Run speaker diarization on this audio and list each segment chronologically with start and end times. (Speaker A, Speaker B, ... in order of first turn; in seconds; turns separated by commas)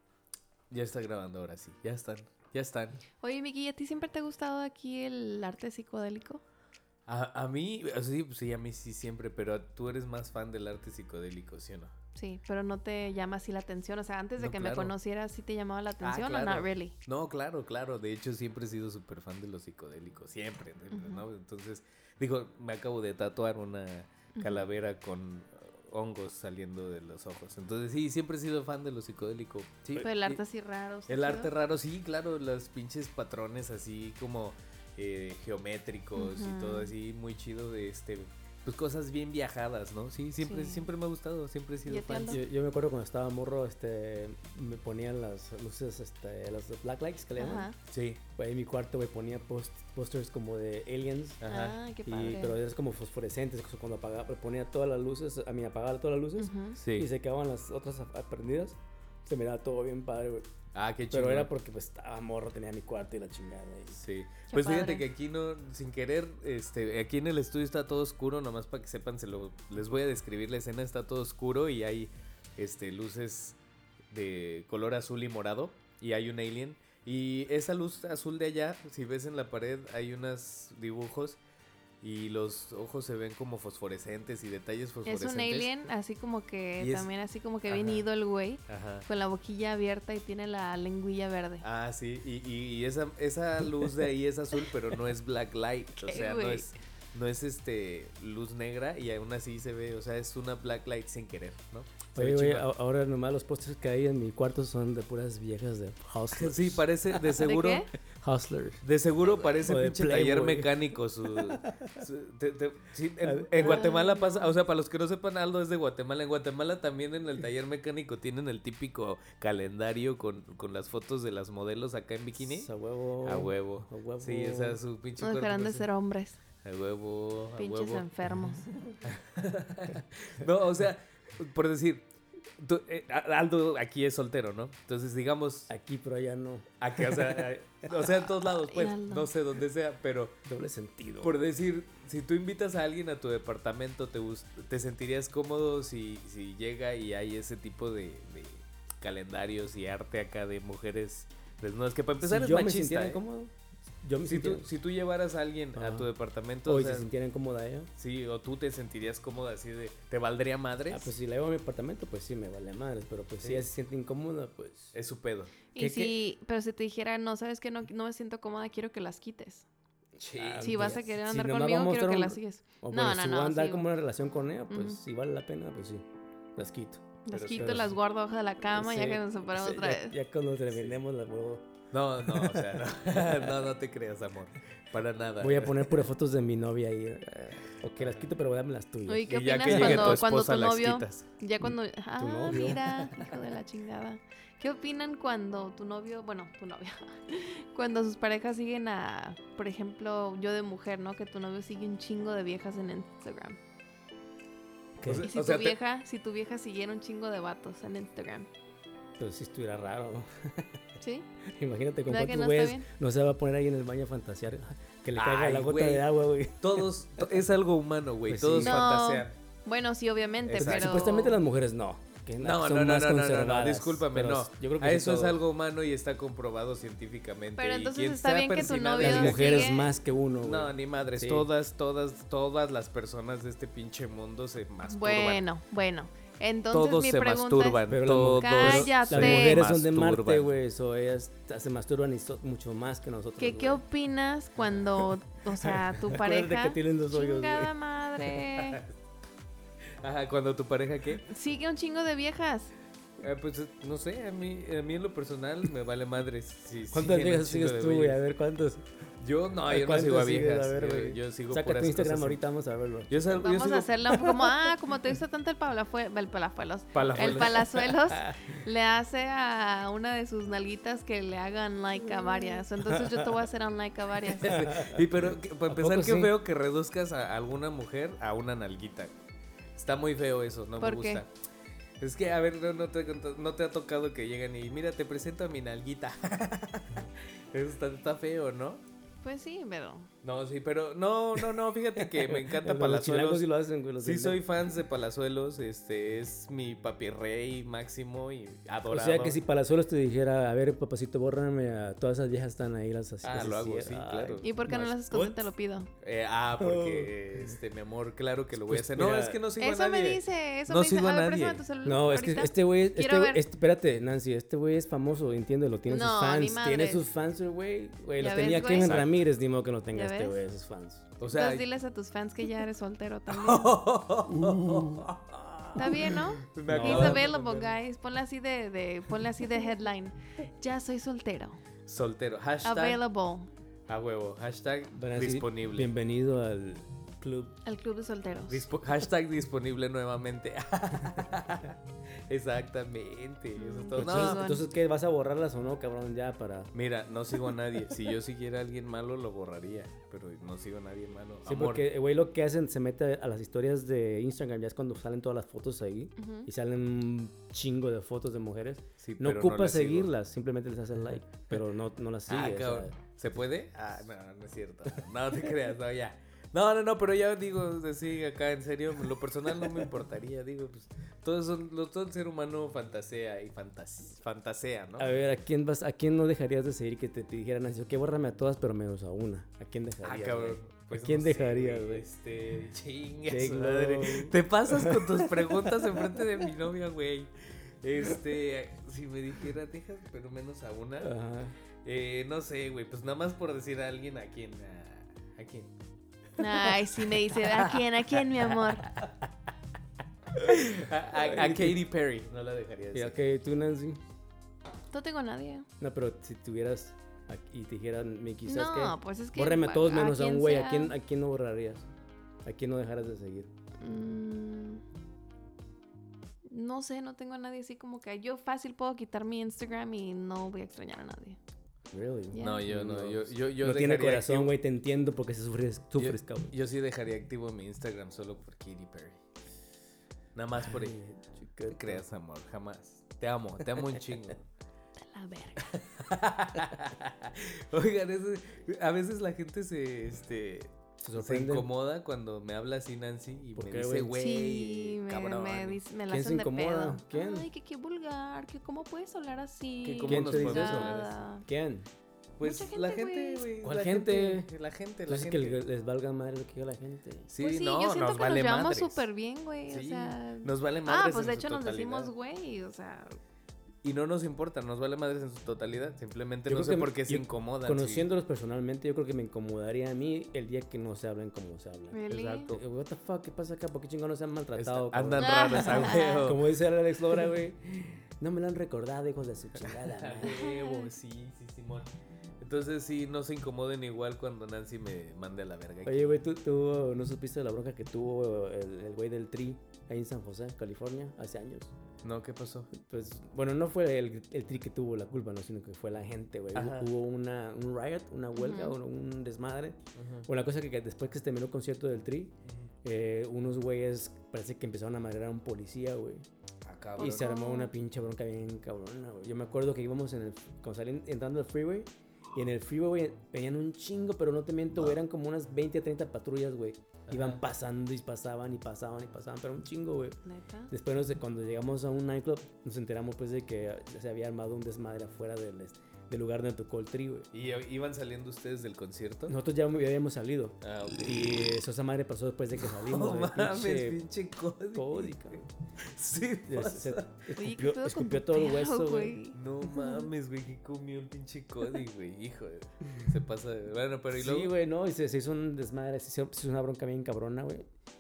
Speaker A: 0.7-3.0, Speaker B: 3.2-6.4, Speaker A: 7.1-11.9, Speaker B: 12.2-16.9, Speaker A: 14.4-14.9, Speaker A: 16.0-30.4, Speaker B: 20.9-21.2, Speaker B: 24.4-24.6, Speaker B: 30.0-31.5, Speaker A: 31.1-42.4, Speaker B: 36.2-36.9, Speaker B: 40.4-40.9, Speaker B: 41.9-42.4, Speaker C: 42.3-47.7, Speaker B: 47.4-47.8, Speaker A: 47.9-48.2, Speaker C: 48.4-51.4, Speaker A: 51.4-51.8, Speaker B: 51.5-52.6, Speaker C: 52.0-60.5, Speaker B: 56.4-56.8, Speaker A: 56.8-57.1, Speaker A: 60.7-61.5, Speaker C: 61.1-64.0, Speaker A: 64.0-73.6, Speaker B: 64.5-65.0, Speaker A: 74.1-81.4, Speaker A: 82.0-85.7, Speaker B: 85.1-91.7, Speaker A: 86.8-87.1, Speaker A: 87.7-88.1, Speaker A: 88.7-89.1, Speaker A: 91.6-102.7, Speaker B: 96.0-96.7, Speaker C: 102.2-107.2, Speaker A: 106.3-107.9, Speaker B: 107.4-107.9, Speaker C: 108.1-108.8, Speaker A: 108.8-122.7, Speaker C: 109.6-112.0, Speaker C: 113.2-113.8, Speaker B: 113.6-114.5, Speaker C: 122.4-124.8, Speaker A: 123.2-125.9, Speaker B: 125.2-126.4, Speaker A: 126.6-128.1, Speaker B: 127.6-128.7, Speaker A: 129.0-135.7, Speaker C: 135.7-137.5, Speaker A: 136.8-140.4, Speaker B: 138.7-139.3, Speaker C: 140.4-141.4, Speaker A: 141.2-153.2, Speaker C: 152.2-154.7, Speaker A: 154.2-157.1, Speaker C: 155.8-156.1, Speaker C: 156.7-157.9, Speaker A: 158.0-161.1, Speaker C: 160.9-164.9, Speaker A: 164.9-165.6, Speaker B: 165.7-169.7, Speaker C: 165.8-166.2, Speaker A: 170.2-171.0, Speaker C: 170.4-176.0, Speaker B: 170.6-173.9, Speaker B: 174.7-175.0, Speaker C: 176.6-178.0, Speaker B: 177.2-180.2, Speaker A: 177.3-177.9, Speaker C: 178.7-183.5, Speaker A: 181.9-186.1, Speaker C: 185.4-190.2, Speaker A: 188.0-188.3, Speaker B: 189.1-203.6, Speaker A: 189.3-191.3, Speaker C: 191.6-193.2, Speaker C: 205.0-205.3, Speaker A: 205.0-205.8, Speaker B: 205.2-208.5, Speaker C: 209.2-210.8, Speaker B: 211.0-211.3, Speaker C: 211.5-217.3, Speaker B: 212.1-212.9, Speaker A: 215.2-216.1, Speaker A: 216.6-219.4, Speaker C: 218.3-218.8, Speaker B: 218.6-221.4, Speaker C: 220.4-225.4, Speaker A: 220.6-221.0, Speaker A: 222.4-229.8, Speaker B: 227.6-230.0, Speaker C: 229.0-231.5, Speaker A: 230.4-235.4, Speaker B: 234.9-237.8, Speaker A: 236.7-240.5, Speaker C: 237.9-243.8, Speaker B: 238.4-239.7, Speaker B: 243.4-248.8, Speaker C: 245.6-247.7, Speaker A: 248.5-248.9, Speaker A: 250.0-251.3, Speaker B: 251.2-252.7, Speaker A: 253.2-258.2, Speaker C: 256.9-258.8, Speaker A: 259.2-262.4, Speaker C: 259.7-263.3, Speaker A: 263.1-264.2, Speaker B: 263.4-274.7, Speaker A: 266.9-267.8, Speaker C: 267.1-268.6, Speaker C: 272.2-273.3, Speaker A: 274.3-279.1, Speaker C: 274.4-276.4, Speaker A: 279.8-281.3, Speaker B: 280.8-281.2, Speaker A: 282.0-288.8, Speaker B: 289.2-290.1, Speaker A: 290.2-293.5, Speaker C: 292.0-294.4, Speaker A: 294.0-299.4, Speaker C: 298.9-305.4, Speaker A: 303.2-304.5, Speaker B: 304.4-305.9, Speaker A: 306.0-311.6, Speaker C: 306.6-307.6, Speaker C: 308.6-309.4, Speaker B: 309.6-313.4, Speaker C: 311.8-321.1, Speaker B: 315.9-317.0, Speaker B: 318.2-319.0, Speaker A: 318.8-319.1, Speaker B: 319.9-320.4, Speaker A: 321.2-321.7, Speaker B: 321.2-323.7, Speaker A: 323.3-327.7, Speaker C: 324.4-325.0, Speaker B: 325.8-331.6, Speaker C: 326.7-327.3, Speaker A: 331.9-333.0, Speaker B: 332.6-333.5, Speaker A: 333.9-335.9, Speaker C: 335.0-337.6, Speaker B: 337.6-338.7, Speaker A: 338.5-344.4, Speaker B: 343.6-344.7, Speaker C: 344.0-346.7, Speaker A: 346.7-351.9, Speaker C: 351.5-362.9, Speaker B: 356.2-356.5, Speaker A: 359.0-360.1, Speaker A: 362.3-375.1, Speaker C: 375.0-382.1, Speaker A: 380.0-391.1, Speaker C: 383.3-386.2, Speaker C: 391.0-391.6, Speaker A: 391.8-395.7, Speaker B: 396.4-398.9, Speaker A: 396.4-399.1, Speaker A: 400.4-403.2, Speaker C: 401.1-401.8, Speaker C: 402.9-404.0, Speaker B: 404.9-405.7, Speaker C: 405.8-411.9, Speaker B: 408.5-410.9, Speaker C: 412.4-413.5, Speaker B: 413.8-414.8, Speaker B: 416.5-421.4, Speaker C: 421.9-426.6, Speaker B: 422.3-422.7, Speaker A: 422.4-424.6, Speaker A: 426.0-429.2, Speaker A: 430.4-431.0, Speaker C: 430.6-432.0, Speaker A: 431.7-434.4, Speaker B: 435.0-435.8, Speaker A: 435.6-445.8, Speaker C: 441.0-441.7, Speaker C: 443.6-444.2, Speaker B: 444.2-451.4, Speaker C: 446.1-447.5, Speaker A: 449.8-451.2, Speaker C: 450.0-451.9, Speaker A: 452.4-455.6, Speaker B: 452.4-453.5, Speaker C: 453.6-454.5, Speaker C: 455.1-457.3, Speaker A: 457.3-459.1, Speaker B: 457.4-463.2, Speaker A: 459.7-462.1, Speaker A: 463.8-468.1, Speaker C: 466.5-480.4, Speaker B: 471.9-472.5, Speaker A: 472.1-472.6, Speaker A: 474.5-476.5, Speaker B: 475.2-476.3, Speaker A: 479.6-486.2, Speaker B: 480.2-480.9, Speaker C: 485.9-491.7, Speaker A: 492.0-492.7, Speaker C: 492.7-506.2, Speaker A: 496.5-496.9, Speaker B: 498.3-498.8, Speaker A: 499.9-500.3, Speaker A: 506.6-507.3, Speaker B: 507.0-507.7, Speaker C: 507.0-520.2, Speaker A: 517.1-517.4, Speaker B: 520.2-520.7, Speaker C: 520.7-527.3, Speaker A: 527.3-529.3, Speaker C: 529.3-534.0, Speaker A: 530.6-531.6, Speaker A: 532.6-537.1, Speaker C: 534.7-535.5, Speaker C: 536.5-539.2, Speaker B: 537.4-540.0, Speaker A: 539.3-544.5, Speaker C: 544.1-547.7